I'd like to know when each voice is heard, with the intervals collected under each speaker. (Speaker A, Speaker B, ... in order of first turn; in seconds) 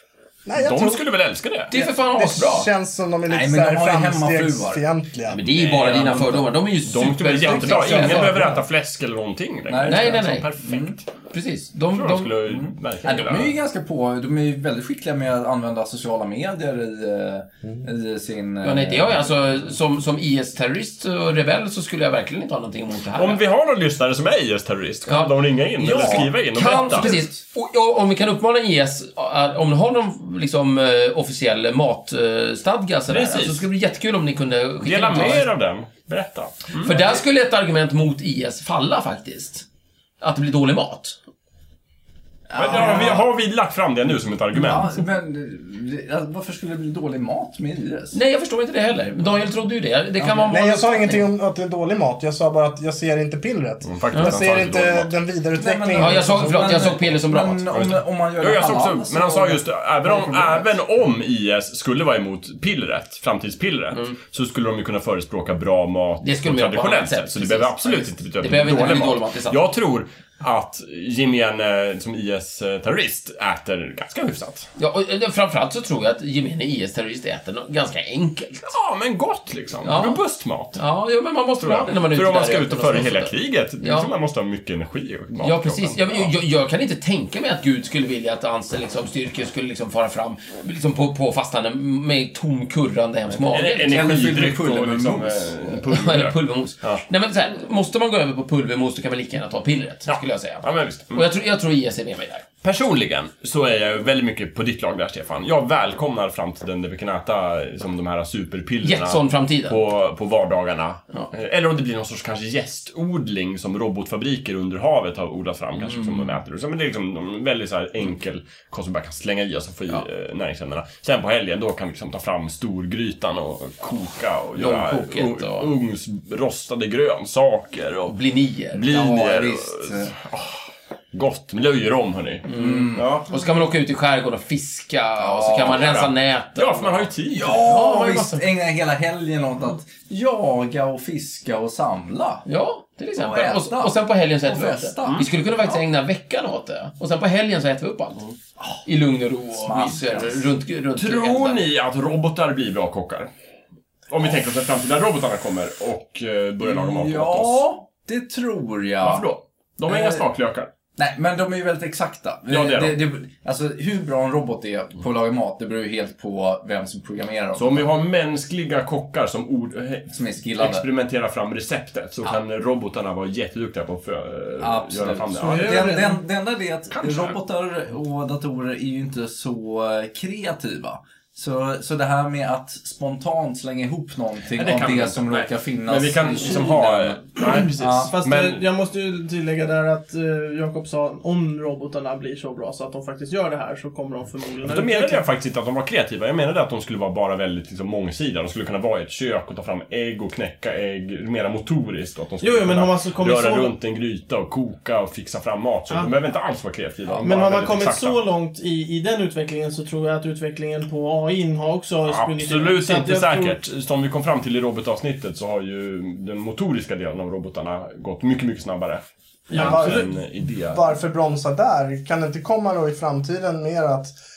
Speaker A: 0.4-1.0, 1.7-5.4, 7.4-8.6, 50.5-57.0, 219.5-220.1, 220.7-224.1
Speaker B: 0.5-1.7, 5.6-6.1, 6.8-11.1, 11.9-13.5, 23.1-27.2, 33.1-33.6, 34.8-37.2, 42.5-45.0, 53.8-55.1, 57.7-74.7, 78.7-80.8, 81.6-86.3, 93.4-97.0, 100.1-101.2, 102.6-128.2, 128.7-133.3, 135.6-137.6, 151.0-153.3, 154.1-157.6, 159.0-160.7, 162.5-163.0, 167.5-175.9, 177.0-177.3, 184.5-188.6, 194.6-208.2, 212.0-220.8
Speaker C: 1.7-2.7, 5.3-8.5, 9.8-10.5, 11.3-12.4, 18.6-23.4, 25.1-35.5, 36.8-39.6, 40.2-41.2, 48.1-51.3, 54.1-54.4, 55.9-57.7, 66.2-69.6, 74.8-78.7, 79.8-80.2, 80.8-84.1, 85.4-94.1, 95.9-102.4, 108.8-109.8, 115.8-116.3, 124.6-125.7, 128.1-128.8, 132.4-138.4, 142.4-148.2, 148.8-151.6
Speaker D: 3.3-4.8, 5.8-6.5, 9.7-10.9, 12.4-19.3, 25.8-27.4, 42.5-43.3, 44.5-48.1, 50.2-50.5, 55.6-60.7, 93.8-95.7, 128.9-130.1, 132.5-133.1, 135.2-135.9, 137.3-142.4, 143.2-145.8, 148.6-148.8, 149.6-150.5, 156.6-159.3, 159.9-160.2, 161.0-167.9, 170.1-170.8, 174.6-187.2, 187.8-188.1
Speaker E: 175.4-176.2, 187.3-195.2, 202.4-203.7, 207.2-213.6, 219.5-220.1